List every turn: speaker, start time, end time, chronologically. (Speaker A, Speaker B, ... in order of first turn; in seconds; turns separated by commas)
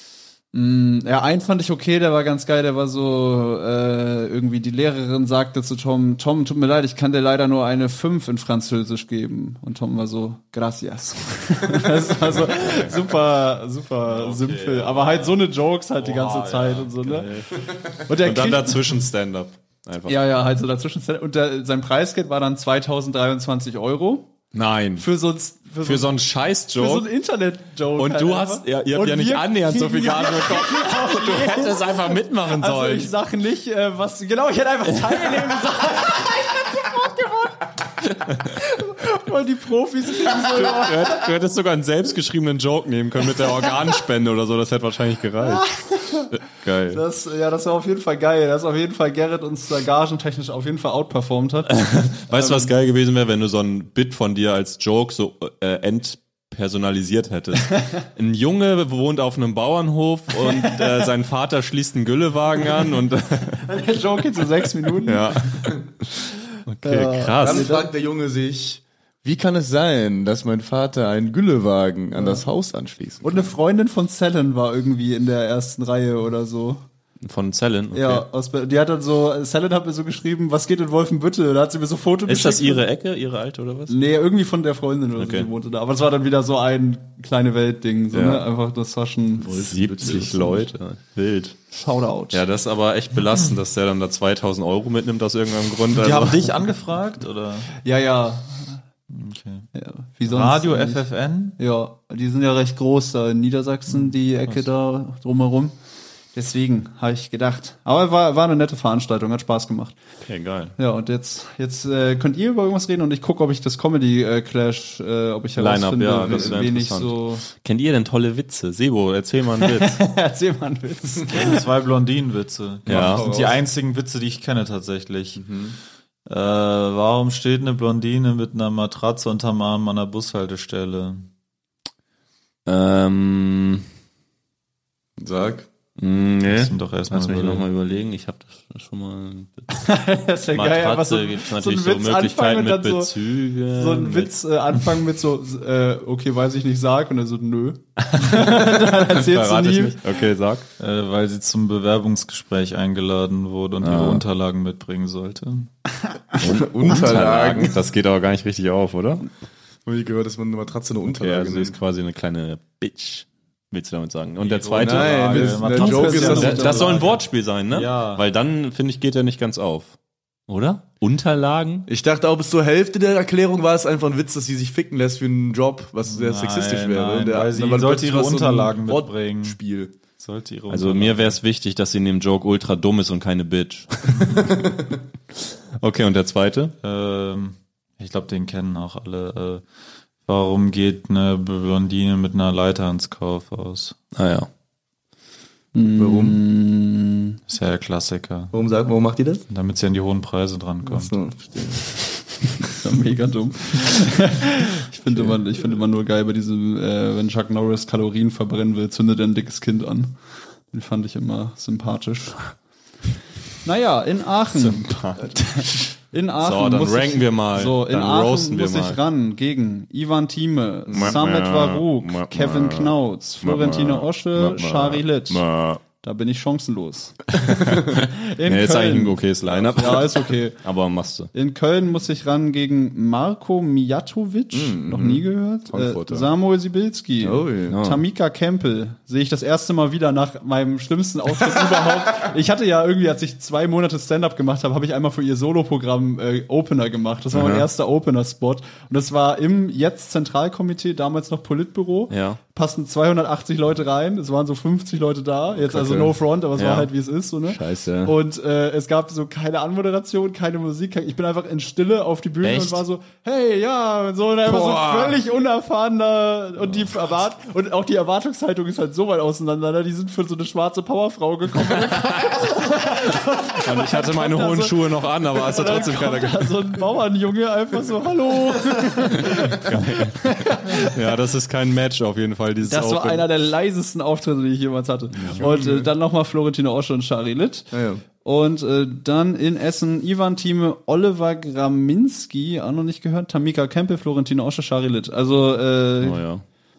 Speaker A: 0.5-17.3, Speaker B: 12.2-13.1, Speaker B: 14.0-15.4, Speaker B: 16.0-20.2, Speaker A: 17.9-18.9, Speaker A: 20.1-24.3, Speaker B: 24.5-25.1, Speaker A: 25.0-26.1, Speaker B: 25.8-27.1, Speaker A: 26.8-41.2, Speaker B: 28.0-33.1, Speaker B: 35.0-35.6, Speaker B: 40.3-45.7, Speaker A: 45.4-46.3, Speaker B: 46.3-47.0, Speaker A: 46.9-52.7, Speaker B: 51.7-63.6, Speaker A: 63.6-65.7, Speaker B: 65.0-67.7, Speaker A: 66.8-67.9, Speaker C: 67.4-73.5, Speaker A: 72.2-72.4, Speaker A: 73.2-76.8, Speaker B: 77.2-78.2, Speaker A: 77.9-82.8, Speaker B: 82.3-84.0, Speaker A: 83.9-90.7, Speaker B: 85.2-85.5, Speaker B: 88.1-88.5, Speaker B: 89.4-91.6, Speaker C: 89.5-90.4, Speaker A: 91.7-92.4, Speaker B: 92.3-96.5, Speaker D: 95.9-97.7, Speaker A: 97.8-98.8, Speaker D: 99.1-99.7, Speaker A: 99.8-101.0, Speaker D: 100.3-101.6, Speaker A: 101.6-105.8, Speaker D: 103.9-104.6, Speaker A: 106.3-110.0, Speaker B: 110.2-110.8, Speaker A: 110.8-117.4, Speaker B: 115.6-120.0, Speaker C: 116.3-116.6, Speaker A: 119.6-121.6, Speaker D: 121.3-125.4, Speaker B: 122.9-123.3, Speaker C: 122.9-123.6, Speaker C: 125.3-125.8, Speaker D: 126.3-131.3, Speaker B: 132.7-133.8, Speaker C: 135.2-135.7, Speaker B: 136.0-139.7, Speaker D: 136.5-137.7, Speaker A: 139.7-143.2, Speaker B: 140.5-144.3, Speaker A: 143.7-150.0, Speaker B: 148.1-150.7, Speaker D: 150.8-155.7, Speaker B: 153.8-154.2, Speaker B: 156.4-159.3, Speaker C: 156.4-157.8, Speaker C: 159.8-161.8, Speaker B: 161.2-169.9, Speaker D: 164.4-168.2, Speaker C: 164.8-166.8, Speaker A: 165.6-167.2, Speaker B: 170.5-171.9, Speaker C: 171.9-179.9, Speaker D: 176.1-179.6, Speaker D: 180.2-181.4, Speaker B: 180.7-184.6, Speaker B: 185.4-186.8, Speaker D: 186.8-189.6, Speaker D: 190.3-193.9, Speaker B: 194.1-194.5, Speaker A: 195.8-197.4, Speaker C: 196.0-196.4, Speaker D: 197.5-198.5, Speaker C: 198.5-199.4, Speaker D: 199.5-201.1, Speaker C: 200.8-201.9, Speaker A: 202.7-210.2, Speaker A: 210.7-212.5, Speaker A: 213.6-230.6, Speaker D: 214.7-215.3, Speaker B: 216.4-219.0, Speaker C: 220.9-221.2, Speaker B: 220.9-225.8, Speaker B: 227.4-231.3, Speaker A: 231.3-280.9, Speaker C: 234.5-236.3, Speaker C: 237.2-237.8, Speaker B: 237.7-238.0, Speaker B: 247.3-247.7, Speaker B: 252.1-252.4, Speaker B: 255.7-256.9, Speaker B: 257.5-257.9, Speaker C: 257.7-258.1, Speaker B: 262.4-262.8, Speaker B: 264.5-265.2, Speaker B: 271.7-272.6, Speaker B: 273.6-276.8, Speaker B: 279.5-283.3, Speaker A: 282.7-296.2, Speaker B: 285.2-285.4, Speaker C: 285.4-285.9, Speaker C: 287.7-288.0, Speaker B: 296.0-296.4